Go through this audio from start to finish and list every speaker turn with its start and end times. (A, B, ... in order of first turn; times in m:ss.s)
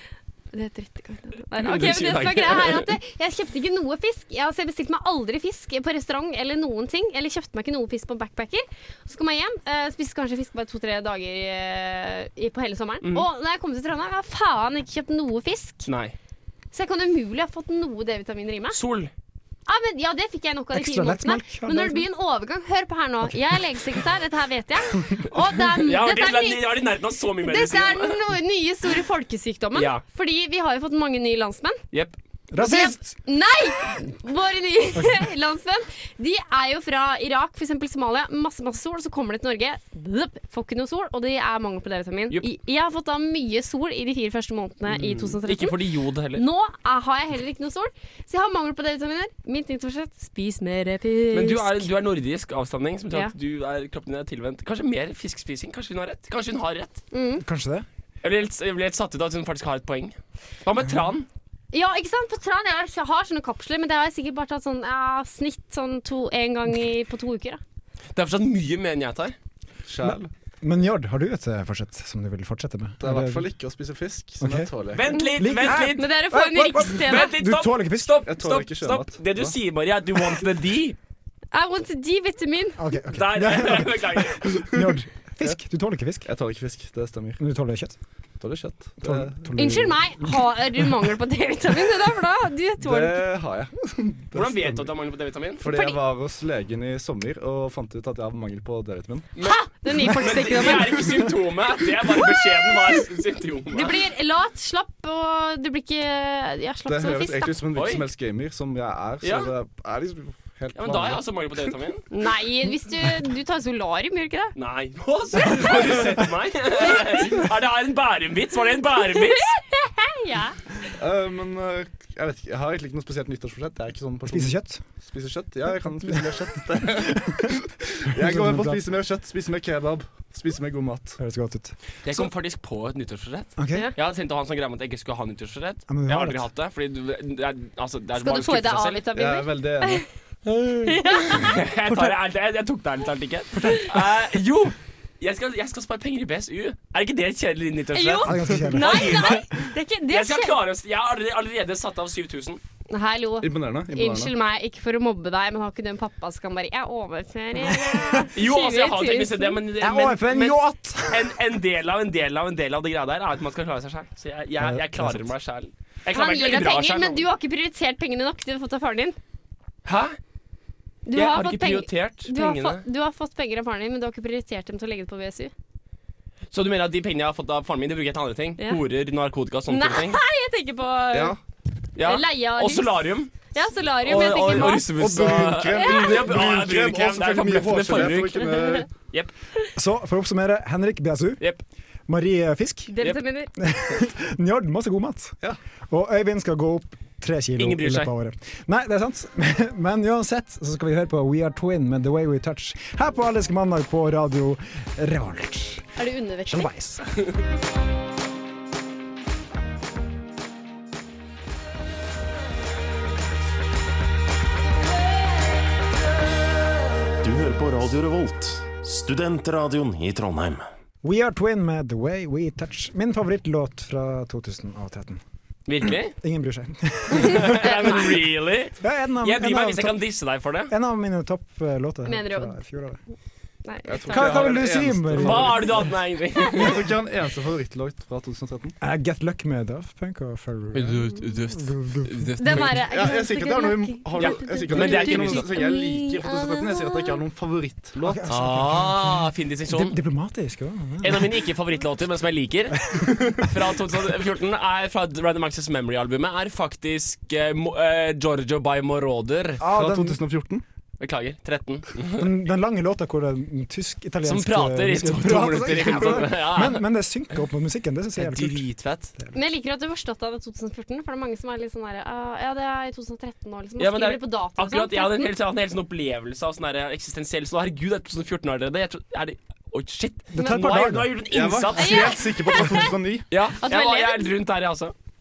0:00.5-0:15.9 A
0:01.6-0:02.9 B
0:15.8-0:16.1 B
0:16.7-0:18.8 A
0:18.7-0:19.1 B
0:19.7-0:26.8 A
0:20.7-0:22.1 C
0:25.8-0:28.2 B
0:27.4-0:31.8 A
0:29.7-0:30.0 B
0:32.5-0:33.1 C
0:32.6-0:45.8 A
0:44.9-0:46.4 B
0:46.3-0:51.9 A
0:51.3-0:57.0 B
0:57.1-0:57.4 A
0:57.4-0:57.8 C
0:58.2-1:01.3 B
1:01.7-1:07.6 A
1:08.1-1:09.3 B
1:09.9-1:10.3 D
1:10.0-1:13.5 C
1:13.0-1:15.0 D
1:14.4-1:18.2 C
1:14.9-1:16.1 B
1:15.8-1:17.3 A
1:17.0-1:21.0 B
1:18.2-1:19.5 D
1:21.5-1:22.8 A
1:22.8-1:26.3 C
1:23.1-1:24.5 B
1:24.4-1:25.6 D
1:26.2-1:27.4 D
1:27.4-1:28.0 C
1:28.4-1:29.5 D
1:29.0-1:30.9 C
1:29.6-1:33.2 A
1:32.8-1:34.9 D
1:34.3-1:35.6 B
1:35.6-1:39.3 D
1:35.6-1:36.0 A
1:39.4-1:44.0 B
1:39.4-1:41.2 A
1:42.2-1:43.0 A
1:43.7-1:47.6 A
1:46.9-1:51.4 D
1:47.7-1:48.0 B
1:49.2-1:49.5 B
1:50.7-1:52.0 B
1:52.1-1:54.5 A
1:54.6-1:59.5 B
1:56.8-1:57.1 A
1:59.1-2:00.6 A
2:01.0-2:11.2 D
2:04.3-2:04.8 C
2:07.0-2:07.5 C
2:08.1-2:08.9 C
2:11.2-2:11.7 C
2:12.0-2:19.0 B
2:13.6-2:13.9 C
2:15.9-2:16.4 C
2:18.2-2:20.0 A
2:19.1-2:20.0 D
2:20.5-2:21.0 C
2:20.8-2:21.6 A
2:21.3-2:29.5 B
2:21.9-2:22.1 C
2:23.6-2:23.9 C
2:27.9-2:30.6 A
2:28.2-2:29.4 C
2:30.1-2:32.6 B
2:32.9-2:39.6 A
2:33.4-2:34.3 D
2:37.7-2:38.2 C
2:38.3-2:47.2 B
2:39.8-2:41.3 C
2:44.6-2:45.3 C
2:46.1-2:49.2 A
2:49.8-2:50.2 B
2:51.1-2:55.5 A
2:51.1-2:52.8 B
2:56.5-3:00.2 B
2:59.7-3:01.4 A
3:01.1-3:01.4 D
3:02.0-3:03.3 B
3:02.0-3:04.9 A
3:04.0-3:09.3 B
3:04.6-3:08.9 D
3:05.8-3:06.2 A
3:09.8-3:11.4 C
3:12.1-3:12.9 C
3:12.9-3:13.5 A
3:13.6-3:15.4 C
3:15.9-3:25.9 C
3:17.6-3:18.1 B
3:26.0-3:26.7 A
3:26.5-3:27.0 C
3:37.2-3:40.6 E
3:41.0-3:45.2 C
3:45.7-3:46.1 B
3:45.8-3:48.2 C
3:47.2-3:50.7 B
3:48.8-3:50.0 C
3:50.7-3:53.0 C
3:52.0-3:52.6 A
3:53.6-3:54.5 A
3:53.9-3:55.9 D
3:54.1-3:55.9 C
3:55.2-3:56.8 B
3:56.4-3:58.8 D
3:58.8-4:02.5 C
4:02.4-4:07.2 A
4:02.7-4:08.3 D
4:04.2-4:05.6 B
4:08.0-4:11.4 C
4:08.3-4:10.0 B
4:11.0-4:19.6 B
4:19.6-4:20.2 C
4:19.6-4:20.6 D
4:21.0-4:22.3 B
4:22.2-4:28.6 C
4:24.2-4:26.8 B
4:28.2-4:29.1 B
4:29.3-4:35.2 A
4:33.8-4:42.6 B
4:40.3-4:41.2 C
4:40.4-4:40.7 A
4:41.3-4:43.3 D
4:41.8-4:42.9 A
4:43.3-4:44.9 B
4:43.6-4:44.3 A